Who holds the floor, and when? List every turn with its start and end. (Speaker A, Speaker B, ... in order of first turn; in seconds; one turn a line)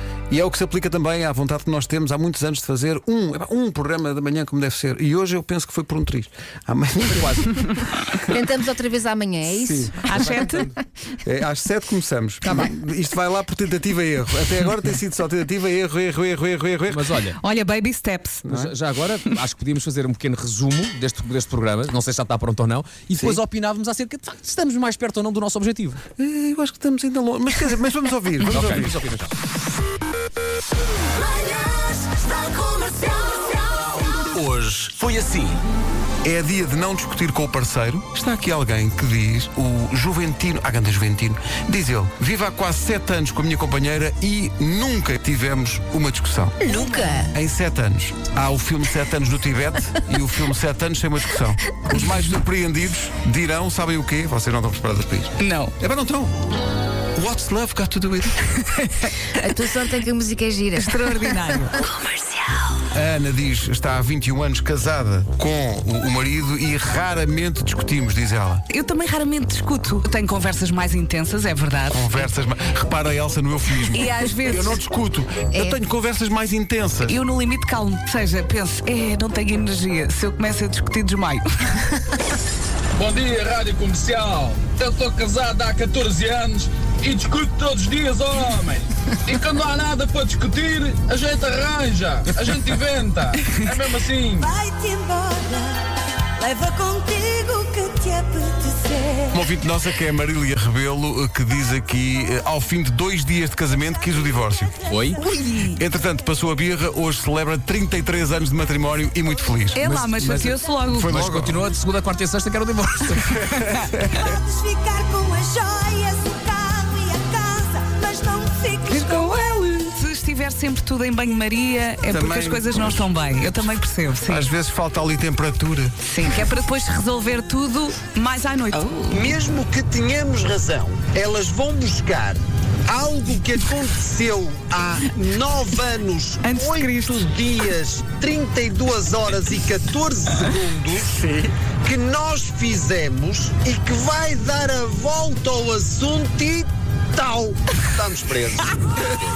Speaker A: 0.3-8.2
Speaker B: 8.3-10.1
Speaker A: 9.5-10.7
Speaker C: 10.0-10.7
Speaker A: 11.2-17.1
Speaker D: 16.9-17.4
Speaker C: 17.4-18.4
Speaker A: 18.4-18.7
Speaker D: 18.4-26.0
Speaker A: 26.2-29.0
Speaker D: 28.4-29.3
Speaker D: 34.4-35.4
Speaker A: 36.2-46.6
Speaker B: 46.6-47.3
Speaker A: 47.3-56.4
Speaker C: 55.4-55.7
Speaker A: 57.1-58.5
Speaker C: 58.8-59.1
Speaker B: 59.4-61.5
Speaker C: 60.7-62.0
Speaker A: 62.9-68.6
Speaker C: 68.7-72.3
Speaker A: 71.9-77.2
Speaker C: 73.9-74.8
Speaker B: 75.5-75.8
Speaker C: 77.0-82.0
Speaker E: 83.0-94.5
Speaker F: 94.2-99.3
Speaker A: 99.3-104.7
Speaker D: 104.9-105.2
Speaker C: 105.2-105.7
Speaker A: 105.7-111.6
Speaker C: 109.7-111.1
Speaker D: 109.8-110.5
Speaker D: 111.0-113.7
Speaker C: 113.6-114.0
Speaker F: 114.2-119.5
Speaker C: 118.9-124.4
Speaker A: 122.1-123.0
Speaker A: 124.2-125.9
Speaker C: 126.0-129.3
Speaker G: 129.1-141.3
Speaker C: 136.4-137.2
Speaker G: 141.8-149.1